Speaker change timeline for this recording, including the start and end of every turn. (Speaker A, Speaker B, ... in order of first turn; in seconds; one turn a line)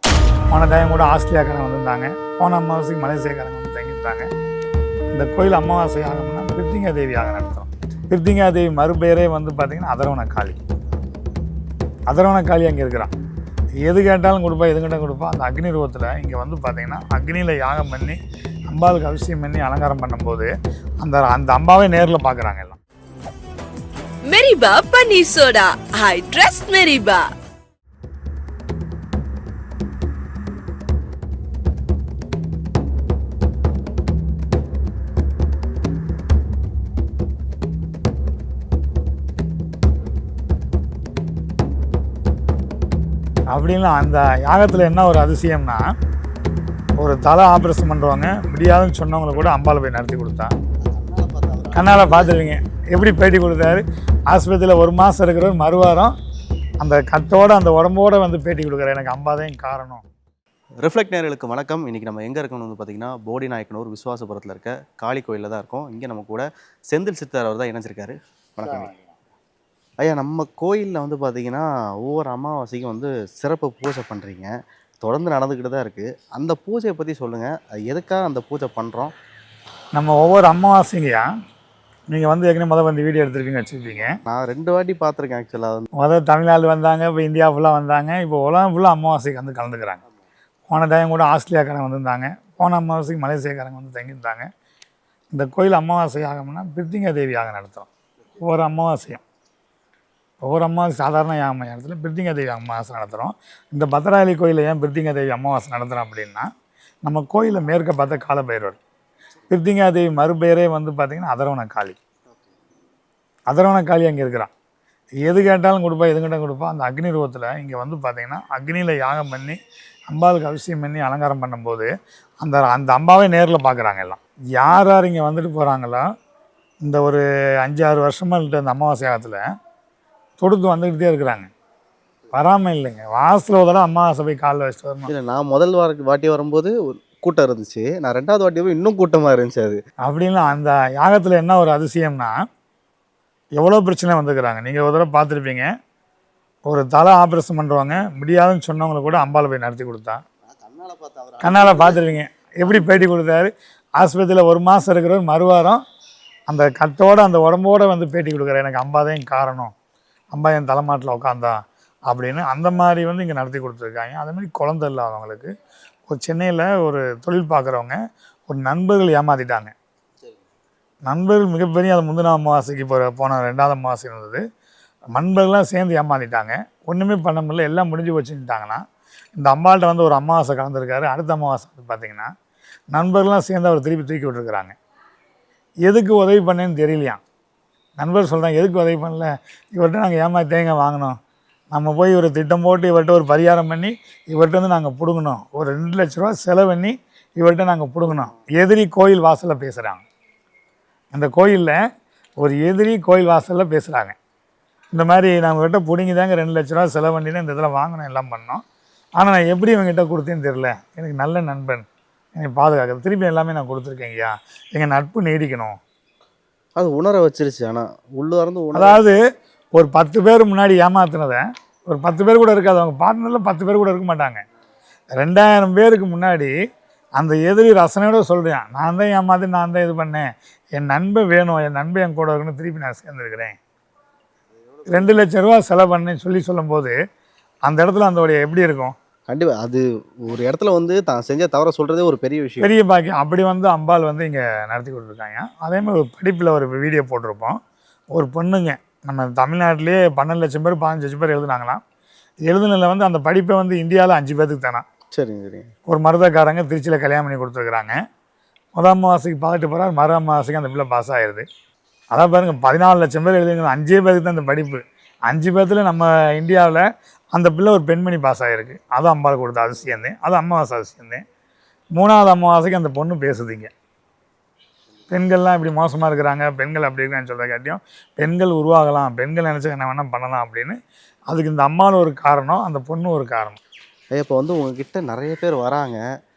Speaker A: 0.5-4.3
Speaker A: 5.1-10.6
Speaker A: 12.1-13.1
Speaker A: 13.8-22.8
Speaker B: 24.2-27.3
Speaker A: 43.5-45.9
Speaker A: 47.0-50.5
Speaker C: 50.9-52.4
Speaker A: 51.7-56.1
Speaker A: 56.8-60.0
Speaker C: 60.8-68.9
Speaker C: 70.0-74.5
Speaker C: 75.0-79.1
Speaker A: 79.9-81.2
Speaker A: 82.1-84.2
Speaker C: 84.2-85.9
Speaker A: 86.0-90.0
Speaker A: 90.7-94.5
Speaker A: 95.3-99.2
Speaker A: 100.4-106.5
Speaker A: 107.0-108.8
Speaker A: 109.5-112.0
Speaker A: 113.5-114.5
Speaker A: 115.2-119.6
Speaker A: 120.1-121.9
Speaker A: 122.4-126.0
Speaker A: 126.8-129.4
Speaker A: 130.4-131.5
Speaker A: 132.3-135.1
Speaker C: 135.1-139.8
Speaker A: 140.0-142.3
Speaker A: 143.6-145.7
Speaker A: 146.7-150.2
Speaker C: 150.4-152.1
Speaker A: 151.4-155.8
Speaker C: 152.6-153.1
Speaker A: 156.5-159.7
Speaker A: 160.3-161.6
Speaker A: 162.1-165.5
Speaker A: 166.1-168.0
Speaker A: 168.5-169.7
Speaker A: 171.1-174.4
Speaker A: 175.1-178.8
Speaker A: 179.3-182.3
Speaker A: 182.9-184.7
Speaker A: 185.8-187.2
Speaker A: 188.0-191.2
Speaker A: 191.7-200.0
Speaker C: 198.0-198.5
Speaker A: 201.1-201.8
Speaker A: 202.4-204.2
Speaker A: 204.9-208.6
Speaker A: 209.2-215.8
Speaker C: 216.8-219.0
Speaker A: 218.7-219.2
Speaker A: 219.7-224.4
Speaker A: 225.2-226.5
Speaker A: 227.2-233.6
Speaker C: 234.6-235.3
Speaker A: 234.9-236.9
Speaker A: 237.6-238.9
Speaker C: 239.3-242.7
Speaker A: 242.6-247.6
Speaker A: 248.1-251.8
Speaker A: 252.5-254.8
Speaker C: 255.1-255.7
Speaker A: 255.9-257.9
Speaker A: 258.8-261.4
Speaker A: 262.1-271.2
Speaker A: 271.9-273.7
Speaker A: 275.1-280.8
Speaker A: 281.3-283.6
Speaker C: 284.1-286.0